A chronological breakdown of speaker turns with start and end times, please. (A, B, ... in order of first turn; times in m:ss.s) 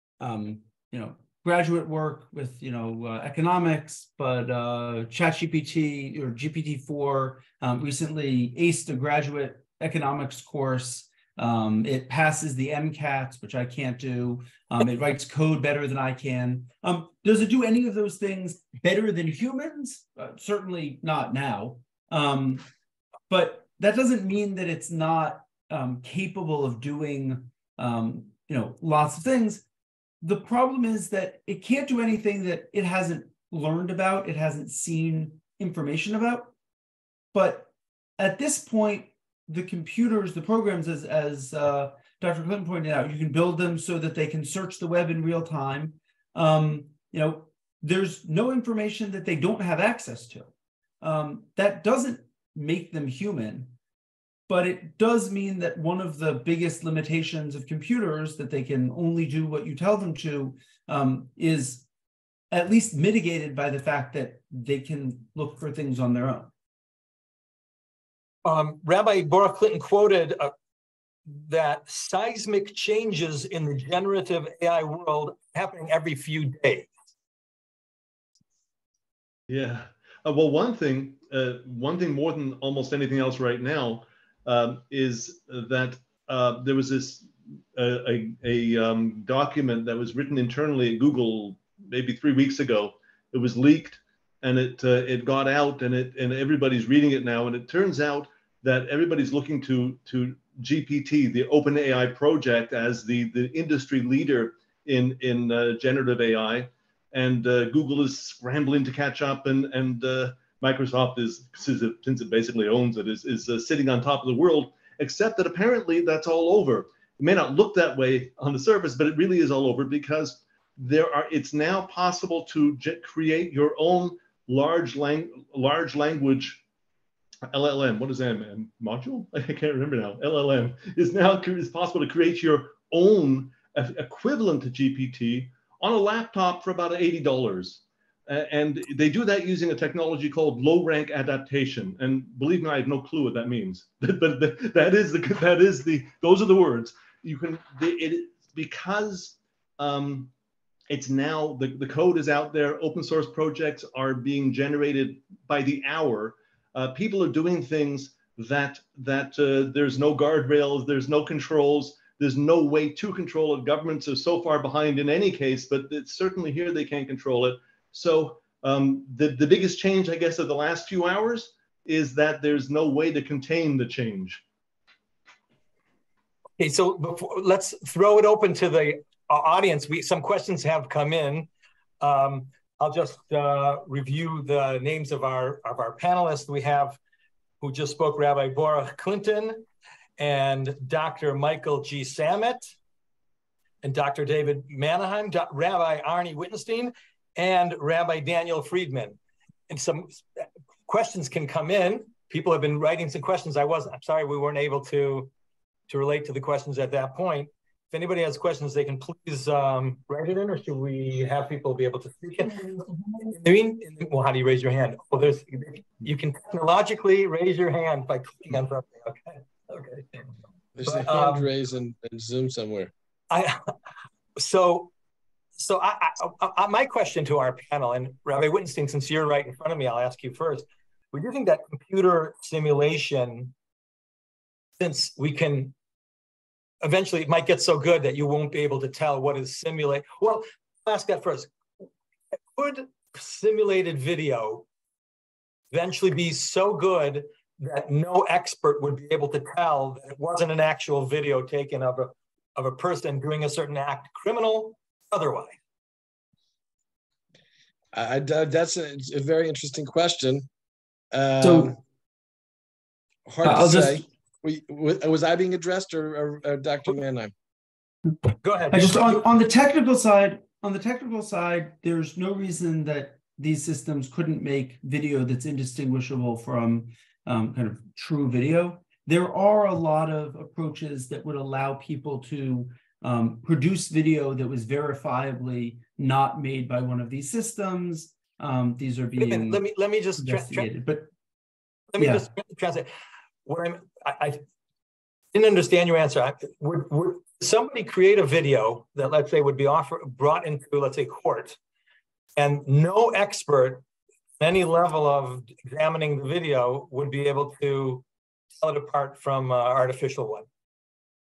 0:00.2-0:22.6 A
0:23.3-0:29.6 A
0:30.2-0:36.5 A
0:37.3-0:53.7 A
0:54.5-1:01.8 A
1:02.5-1:06.5 A
1:08.4-1:10.5 B
1:11.3-1:16.9 B
1:19.5-2:06.6 C
2:07.5-2:30.3 C
2:30.9-2:54.4 C
2:56.6-3:01.5 B
3:02.0-3:07.0 B
3:07.6-3:09.6 B
3:10.2-3:12.7 B
3:13.8-3:19.2 B
3:19.7-3:20.2 B
3:20.9-3:25.3 B
3:25.9-3:40.2 B
3:40.8-3:42.9 D
3:40.8-3:41.5 B
3:43.3-3:43.7 B
3:44.4-3:44.9 B
3:45.6-3:53.5 B
3:54.8-3:55.7 B
3:56.8-4:01.5 B
4:02.5-4:04.6 B
4:05.7-4:15.6 B
4:17.9-4:20.5 D
4:21.1-4:21.8 D
4:21.4-4:21.7 A
4:23.2-4:27.3 D
4:23.4-4:24.0 A
4:28.4-4:29.2 B
4:28.7-4:49.6 A
4:49.2-4:50.7 B
4:50.2-4:51.1 A
4:51.9-4:52.9 B
4:52.0-4:52.2 A
4:53.4-4:54.4 B
4:55.3-5:01.6 B
5:02.4-5:03.8 B
5:04.4-5:10.4 B